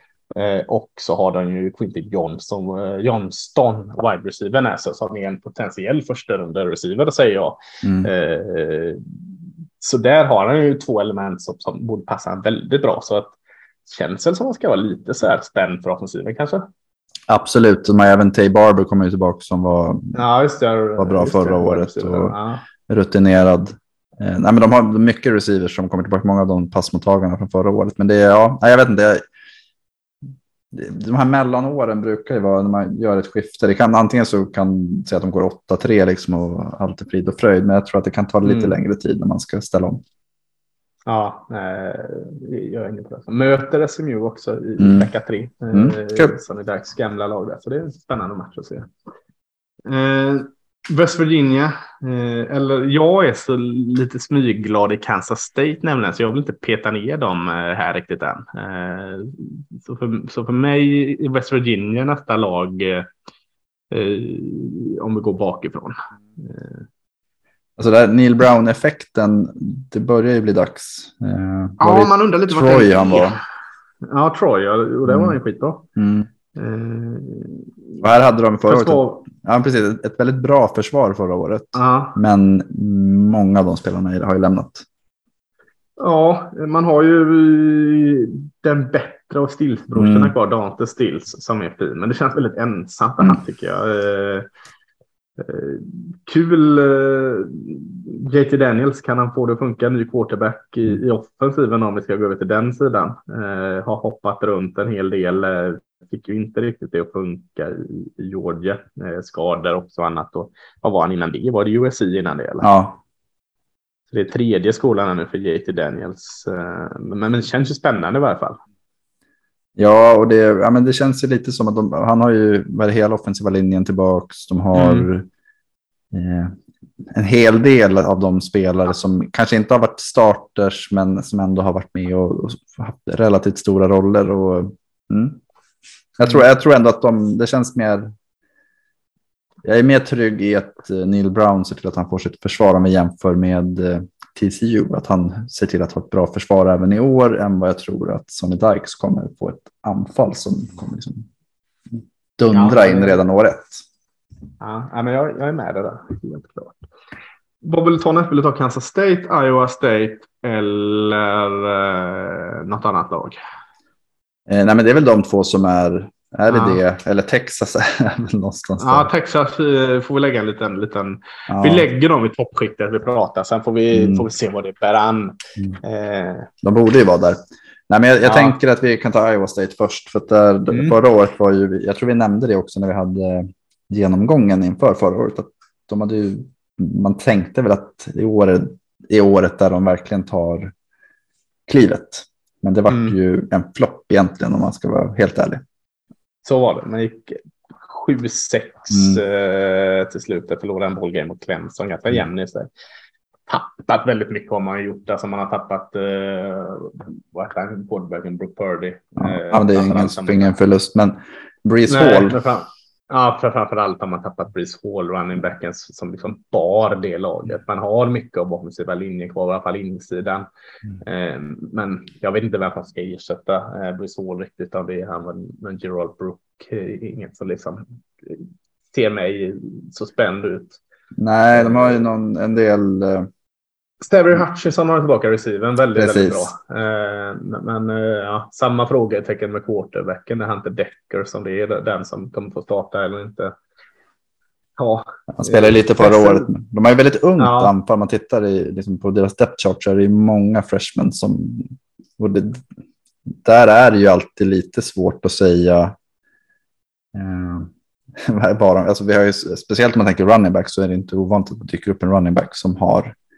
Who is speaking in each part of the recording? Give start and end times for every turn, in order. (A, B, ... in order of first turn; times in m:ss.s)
0:00.3-0:09.0 A
0:07.8-0:08.1 B
0:09.8-0:13.3 A
0:13.8-0:16.6 A
0:17.3-0:20.2 B
0:20.1-0:22.6 A
0:21.0-0:22.4 B
0:22.9-0:29.2 B
0:30.7-0:40.0 B
0:38.4-0:38.8 A
0:41.0-0:48.9 A
0:44.8-0:45.1 B
0:45.7-0:46.4 B
0:49.8-1:03.1 A
1:03.9-1:06.8 A
1:07.8-1:13.4 B
1:11.8-1:13.4 A
1:14.1-1:15.8 A
1:15.1-1:15.4 B
1:16.0-1:16.3 B
1:16.5-1:17.7 A
1:18.0-1:24.8 B
1:18.7-1:19.2 A
1:21.7-1:22.2 A
1:26.0-1:34.5 A
1:29.9-1:30.3 B
1:35.4-1:52.7 A
1:52.6-1:53.0 B
1:54.1-1:58.6 A
1:59.8-2:05.3 B
2:04.7-2:05.1 A
2:06.1-2:06.5 B
2:07.0-2:15.4 B
2:16.2-2:18.1 B
2:19.6-2:31.3 B
2:32.4-2:33.8 B
2:32.5-2:33.2 A
2:34.6-2:36.8 A
2:37.6-2:43.4 A
2:44.5-2:49.1 B
2:46.5-2:46.8 A
2:48.8-2:56.5 A
2:51.5-2:51.9 B
2:53.9-2:54.3 B
2:56.6-3:10.7 B
2:58.2-2:58.6 A
3:00.7-3:01.0 A
3:11.7-3:15.6 B
3:12.9-3:13.1 A
3:16.4-3:22.7 A
3:18.9-3:19.2 B
3:23.5-3:30.5 A
3:29.2-3:32.4 B
3:31.9-3:40.5 A
3:41.0-3:50.8 A
3:51.2-3:53.3 B
3:51.5-3:52.0 A
3:54.0-4:03.6 A
3:56.0-3:56.5 B
4:04.8-4:06.5 A
4:05.3-4:12.6 B
4:07.4-4:07.7 A
4:13.4-4:15.9 B
4:17.1-4:23.1 B